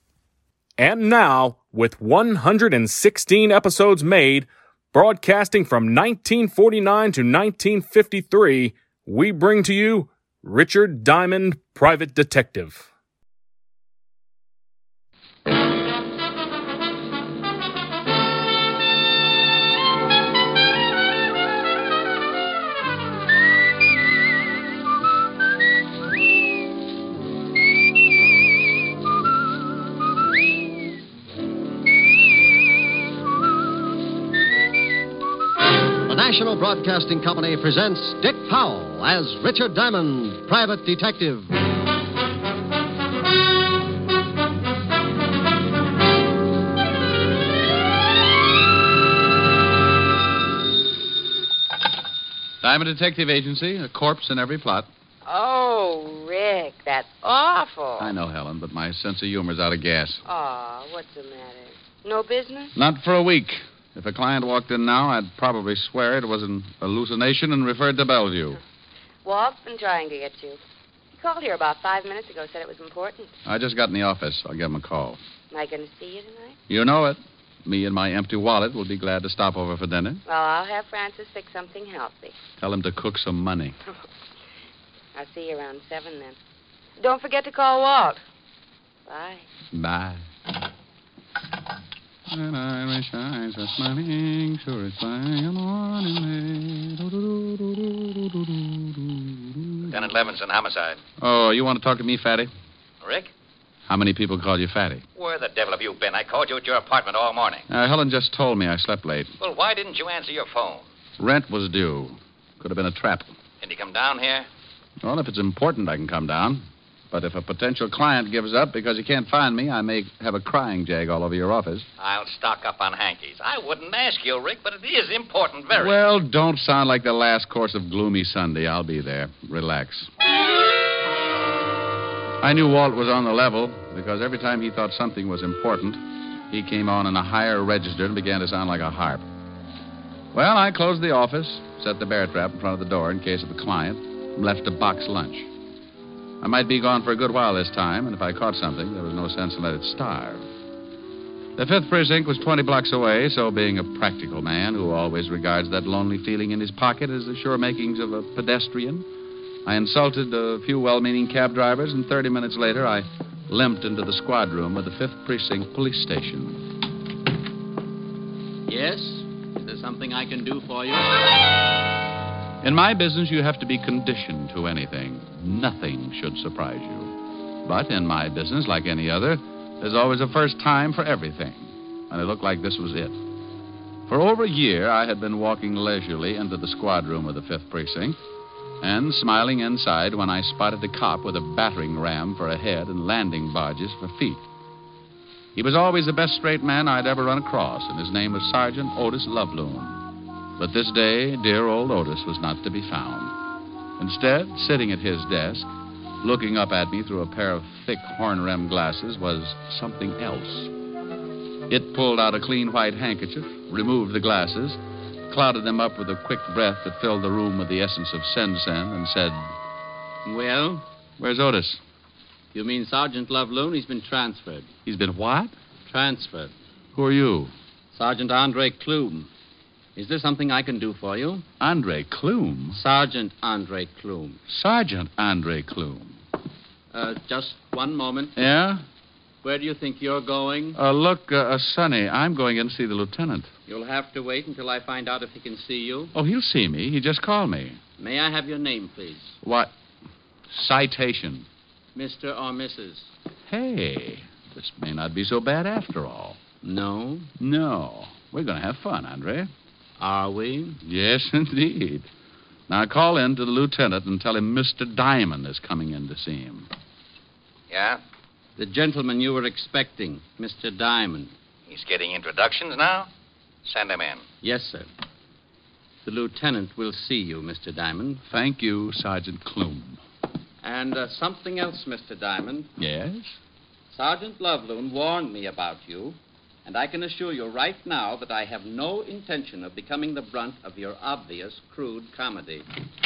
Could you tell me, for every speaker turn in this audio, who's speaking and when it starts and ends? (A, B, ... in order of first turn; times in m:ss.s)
0:00.8-0:12.8 A
0:36.0-0:41.6 B
0:52.6-0:54.9 C
0:55.2-0:58.1 D
0:58.0-1:00.2 C
1:00.2-1:02.7 D
1:02.7-1:08.6 C
1:09.2-1:10.6 D
1:11.2-1:13.3 D
1:13.4-1:15.2 C
1:15.5-1:16.6 D
1:16.7-1:20.2 C
1:20.2-1:22.3 D
1:22.6-1:23.7 C
1:25.1-1:26.4 D
1:27.0-1:28.2 D
1:29.0-1:29.4 D
1:29.7-1:30.2 C
1:32.3-1:39.8 C
1:39.9-1:41.0 E
1:41.2-1:42.5 C
1:43.0-1:43.3 E
1:43.9-1:45.0 C
1:45.1-1:47.7 E
1:47.7-1:49.3 C
1:49.4-1:50.8 E
1:51.2-1:53.3 C
1:53.6-1:54.5 E
1:55.0-2:01.9 C
2:02.0-2:06.0 E
2:05.7-2:10.1 C
2:12.4-2:19.2 C
2:20.3-2:25.5 C
2:26.4-2:30.5 C
2:31.6-2:39.0 C
2:39.6-2:46.6 C
2:48.7-2:51.2 F
2:52.6-3:03.2 C
3:04.1-3:08.2 C
3:08.8-3:14.4 C
3:15.5-3:20.0 C
3:20.6-3:23.3 C
3:24.0-3:25.7 C
3:26.2-3:30.7 C
3:31.7-3:39.5 C
3:40.2-3:40.8 F
3:41.2-3:41.8 C
3:42.5-3:44.7 F
3:44.8-3:45.5 C
3:45.8-3:46.5 F
3:46.9-3:47.5 C
3:47.9-3:49.3 F
3:50.0-3:51.4 F
3:51.6-3:52.8 C
3:52.7-3:54.4 F
3:54.5-3:56.1 C
3:56.9-3:58.4 F
3:58.4-3:58.8 C
3:59.4-4:00.8 F
4:00.7-4:03.5 C
4:03.7-4:06.1 F
4:06.1-4:07.8 C
4:08.0-4:09.4 F
4:09.4-4:09.7 C
4:10.5-4:11.4 C
4:11.9-4:13.1 F
4:13.5-4:16.4 C
4:16.6-4:17.3 F
4:17.4-4:19.5 C
4:20.0-4:20.8 F
4:20.8-4:22.1 C
4:22.7-4:26.7 C
4:27.7-4:28.0 E
4:28.6-4:31.3 F
4:31.7-4:33.1 E
4:33.6-4:34.2 E
4:34.4-4:34.9 F
4:36.0-4:38.2 F
4:38.2-4:40.0 C
4:40.6-4:42.7 F
4:42.8-4:43.4 C
4:43.9-4:52.6 F